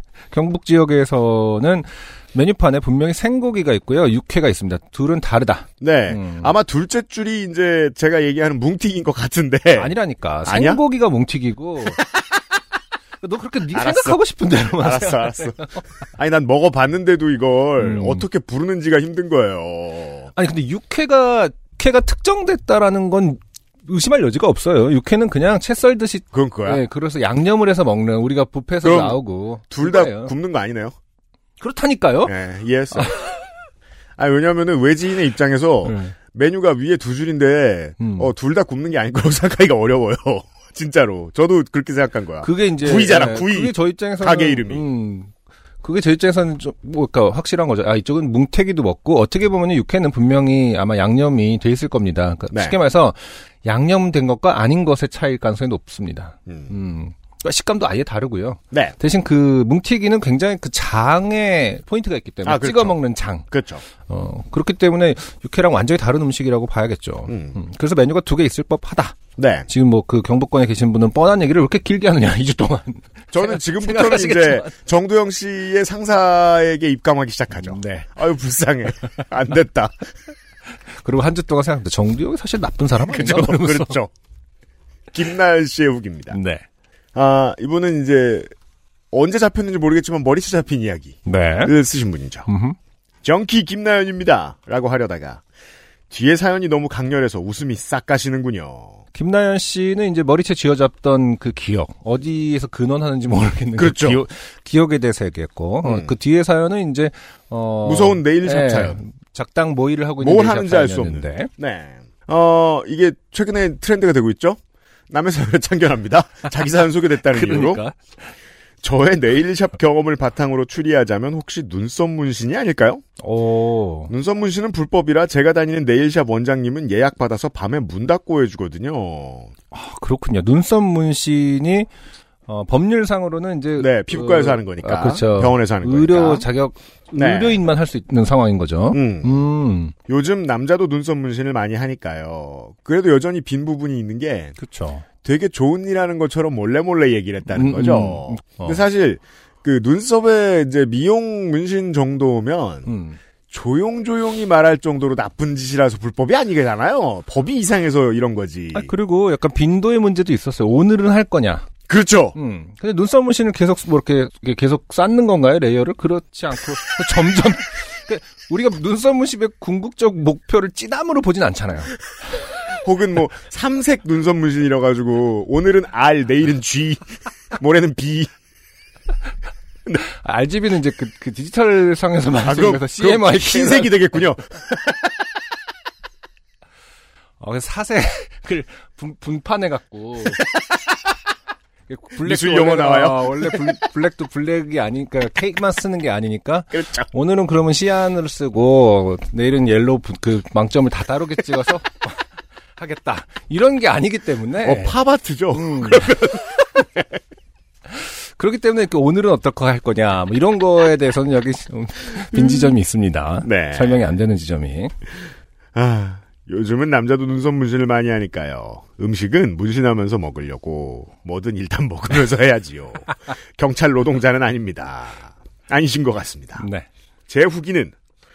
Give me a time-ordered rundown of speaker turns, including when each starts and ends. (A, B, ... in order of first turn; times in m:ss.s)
0:00.3-0:06.5 A
0:05.8-0:10.8 B
0:09.8-0:12.0 A
0:13.2-0:15.8 A
0:13.7-0:20.3 B
0:17.8-0:18.2 A
0:20.4-0:30.3 A
0:26.3-0:26.8 B
0:28.8-0:29.2 B
0:29.7-0:31.0 B
0:31.6-0:32.4 A
0:32.3-0:33.1 B
0:33.0-0:33.3 A
0:34.2-0:44.9 B
0:35.8-0:36.2 A
0:38.0-0:38.3 A
0:42.4-0:45.3 A
0:45.8-1:14.8 A
0:56.5-0:56.7 B
1:02.4-1:03.8 B
1:07.3-1:07.6 B
1:09.4-1:09.7 B
1:13.3-1:20.0 B
1:17.5-1:18.1 A
1:21.0-1:24.0 A
1:23.0-1:24.1 B
1:25.1-1:26.4 B
1:26.3-1:26.6 A
1:27.2-1:28.5 B
1:29.1-1:32.5 B
1:31.3-1:31.7 A
1:32.5-1:32.8 A
1:33.2-1:35.4 B
1:36.1-1:39.0 B
1:39.2-1:51.5 A
1:43.8-1:44.2 B
1:45.8-1:46.1 B
1:47.8-1:49.0 B
1:50.2-1:57.8 B
1:57.3-1:58.0 A
1:58.8-2:03.0 B
2:03.2-2:04.1 A
2:04.1-2:09.5 B
2:09.7-2:11.9 A
2:12.5-2:19.9 A
2:13.8-2:16.5 B
2:17.2-2:17.6 B
2:18.9-2:19.3 B
2:20.1-2:24.6 B
2:24.6-2:25.1 A
2:25.2-2:32.9 B
2:27.5-2:28.8 A
2:32.9-2:33.2 A
2:33.5-2:38.9 B
2:38.7-2:41.7 A
2:41.9-2:42.4 B
2:42.4-2:52.0 A
2:52.7-2:58.3 B
3:00.0-3:04.2 A
3:02.4-3:05.0 B
3:07.4-3:10.4 A
3:11.9-3:22.2 A
3:12.2-3:13.8 B
3:16.7-3:17.1 B
3:22.8-3:25.0 A
3:24.6-3:27.1 B
3:25.5-3:26.1 A
3:27.9-3:34.9 A
3:33.4-3:34.0 B
3:35.8-3:46.7 B
3:46.6-3:46.9 A
3:47.3-3:47.9 B